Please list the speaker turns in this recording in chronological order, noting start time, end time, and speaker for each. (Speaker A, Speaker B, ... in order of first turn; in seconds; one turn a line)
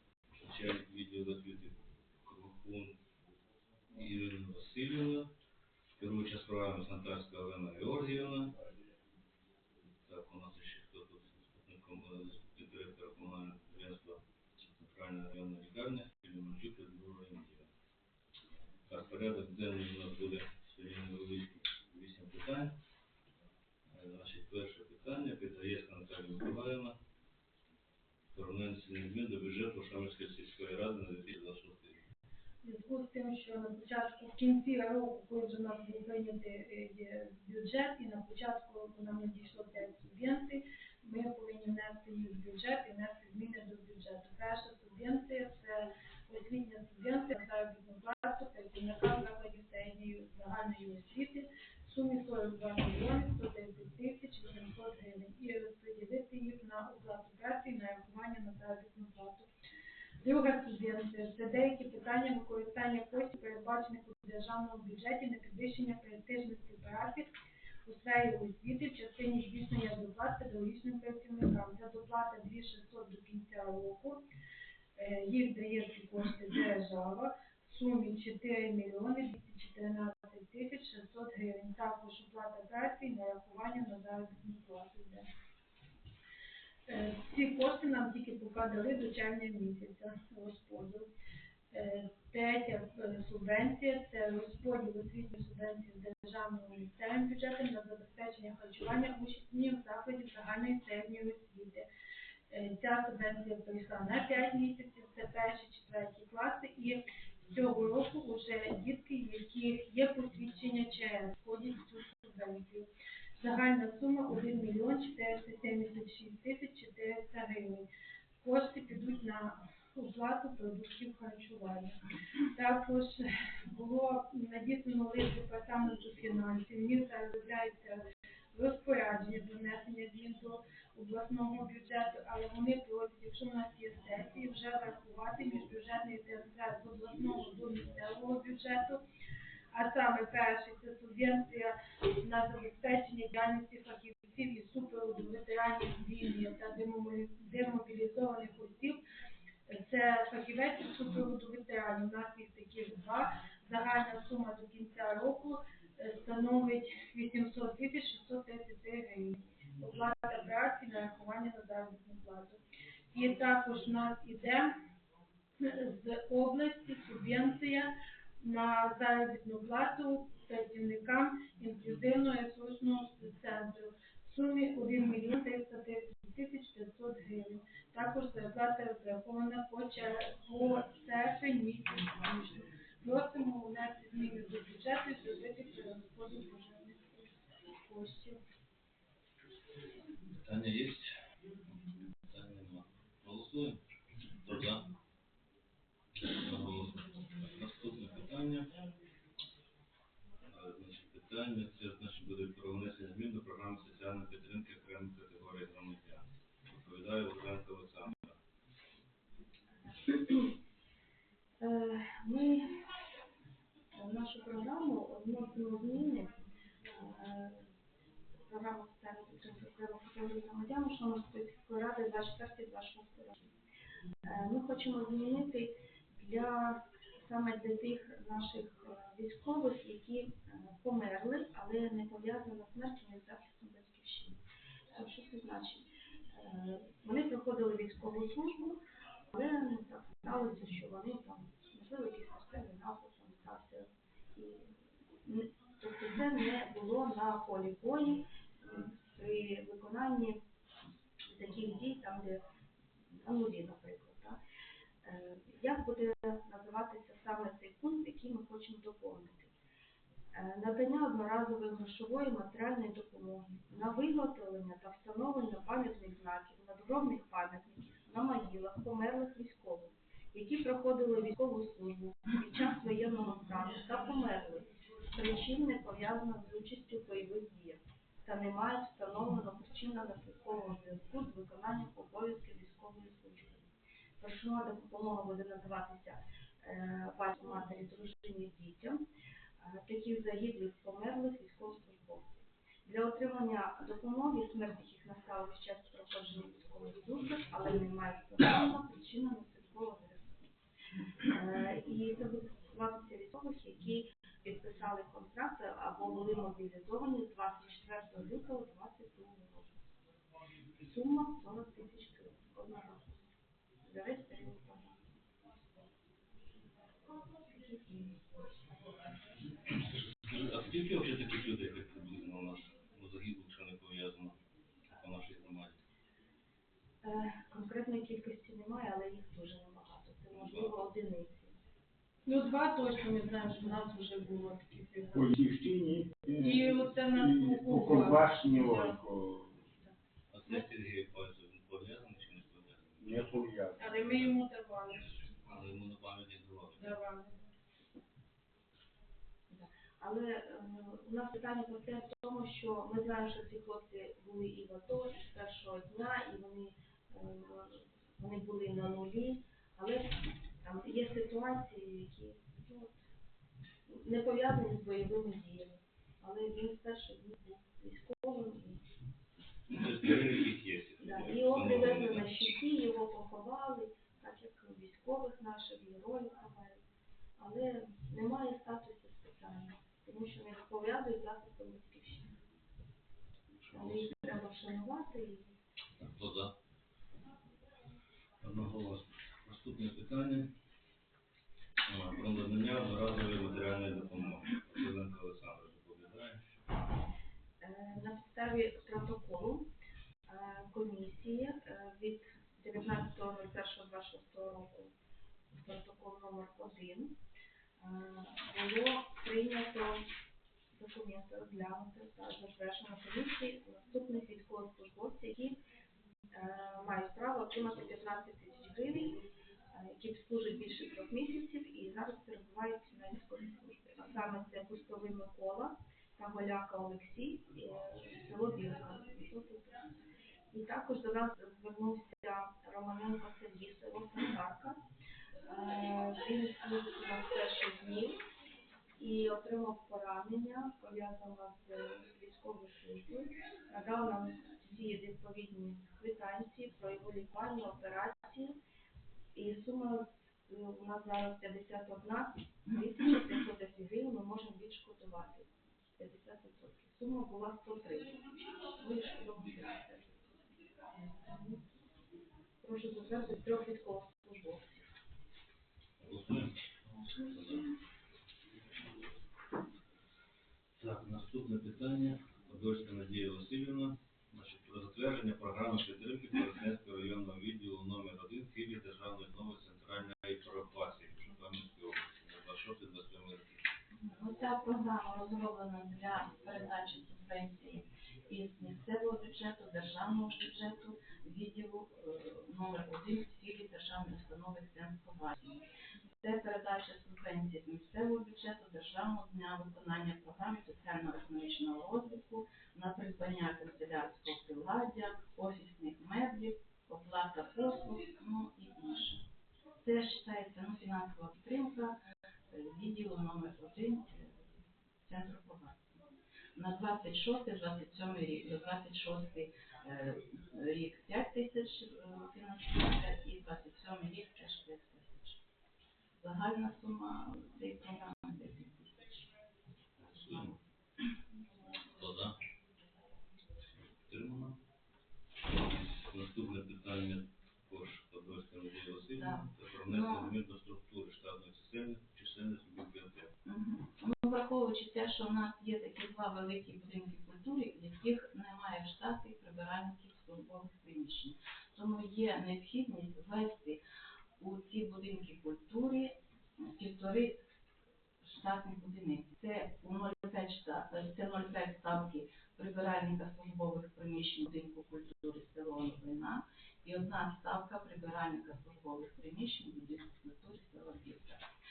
Speaker A: 0.3-2.9
Speaker A: 3.9-5.3
Speaker A: 6.0-8.5
Speaker A: 10.1-14.2
Speaker A: 14.8-17.7
Speaker A: 18.9-22.7
Speaker A: 23.9-26.9
Speaker A: 28.3-32.0
Speaker B: 32.6-59.5
Speaker B: 60.2-67.3
Speaker B: 67.8-74.2
Speaker B: 75.0-85.2
Speaker B: 86.9-91.1
Speaker B: 91.7-101.8
Speaker B: 102.5-107.0
Speaker B: 107.5-117.8
Speaker B: 118.4-128.0
Speaker B: 128.5-139.0
Speaker B: 139.7-149.0
Speaker B: 149.7-162.6
Speaker B: 163.1-164.7
Speaker B: 165.6-188.4
Speaker A: 190.4-191.1
Speaker A: 192.3-193.8
Speaker A: 194.4-194.9
Speaker A: 196.3-198.7
Speaker A: 200.5-206.2
Speaker A: 206.8-208.4
Speaker C: 209.9-210.6
Speaker C: 211.6-212.8
Speaker C: 213.9-216.3
Speaker C: 216.9-217.7
Speaker C: 218.5-223.5
Speaker C: 224.2-234.4
Speaker C: 234.9-238.8
Speaker C: 239.3-244.7
Speaker C: 245.2-250.4
Speaker C: 251.2-252.4
Speaker C: 253.1-254.4
Speaker C: 255.0-259.5
Speaker C: 260.3-283.6
Speaker C: 284.2-289.0
Speaker C: 289.6-300.5
Speaker C: 301.3-309.8
Speaker C: 310.8-313.2
Speaker C: 313.8-315.0
Speaker C: 317.1-318.2
Speaker A: 320.3-324.3
Speaker A: 324.9-325.8
Speaker C: 327.0-331.6
Speaker A: 330.4-330.7
Speaker B: 332.2-335.4
Speaker D: 335.1-339.7
Speaker B: 336.3-339.0
Speaker A: 340.3-343.2
Speaker D: 343.0-343.9
Speaker B: 343.8-345.2
Speaker A: 343.9-344.4
Speaker A: 345.0-347.0
Speaker B: 346.8-347.5
Speaker C: 349.5-363.0
Speaker C: 363.9-368.8
Speaker A: 369.7-372.5
Speaker C: 371.0-376.8
Speaker C: 377.4-382.3
Speaker A: 383.5-384.2
Speaker C: 383.7-385.5
Speaker A: 386.0-386.5
Speaker A: 388.4-390.5
Speaker A: 391.9-396.6
Speaker C: 397.6-399.7
Speaker C: 400.3-404.9
Speaker C: 405.6-407.2
Speaker C: 407.8-410.0
Speaker C: 410.7-415.6
Speaker C: 416.3-429.8
Speaker C: 430.5-434.8
Speaker C: 435.4-438.2
Speaker C: 439.0-448.6
Speaker C: 449.3-460.2
Speaker C: 461.0-461.6
Speaker C: 462.6-464.9
Speaker A: 466.0-466.6
Speaker A: 467.2-467.7
Speaker A: 470.8-483.6
Speaker E: 483.9-495.6
Speaker E: 496.2-509.2
Speaker E: 509.8-512.0
Speaker E: 512.5-514.3
Speaker E: 515.0-516.0
Speaker E: 516.5-525.4
Speaker E: 526.2-529.2
Speaker A: 530.0-530.5
Speaker A: 532.0-532.4
Speaker A: 534.0-534.6
Speaker A: 535.5-543.3
Speaker E: 539.2-540.3
Speaker E: 543.5-553.8
Speaker E: 554.4-557.4
Speaker E: 558.2-571.5